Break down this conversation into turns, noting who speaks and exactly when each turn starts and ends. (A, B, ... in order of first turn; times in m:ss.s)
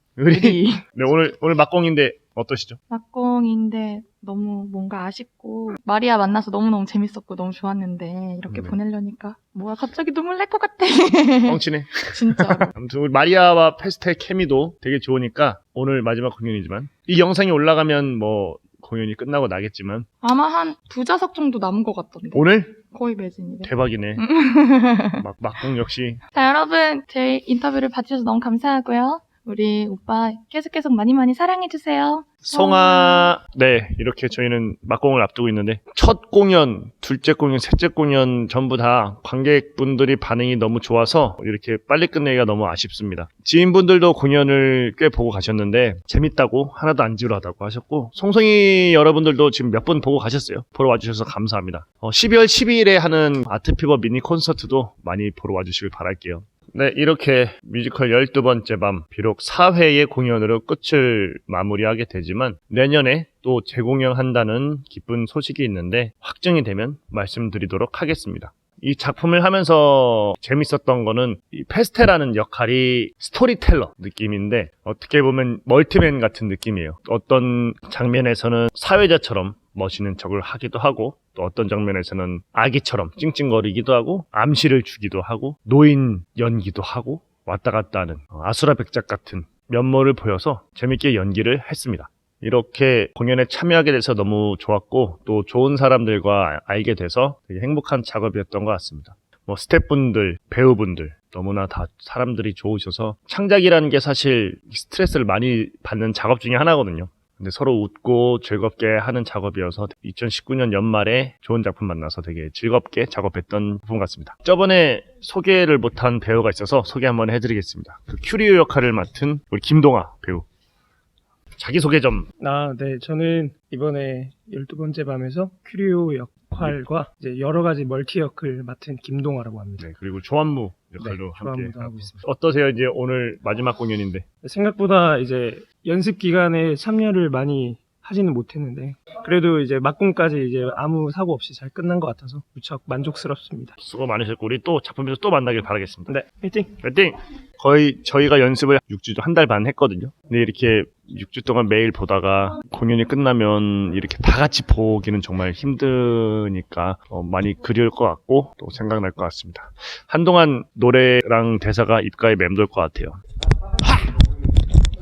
0:00.2-0:02.8 A
0:00.3-0:00.8 B
0:02.9-0:12.7 B
0:08.5-0:08.8 A
0:11.4-0:20.1 A
0:20.2-0:25.2 B
0:22.3-0:22.8 A
0:23.6-0:24.2 A
0:25.1-0:26.2 A
0:26.3-0:33.4 B
0:32.4-2:00.4 A
2:01.6-2:02.3 A
2:02.4-2:09.9 C
2:09.8-2:14.2 A
2:11.0-2:12.2 C
2:14.4-2:23.7 C
2:23.8-2:26.1 A
2:26.1-2:26.7 C
2:26.8-2:43.2 A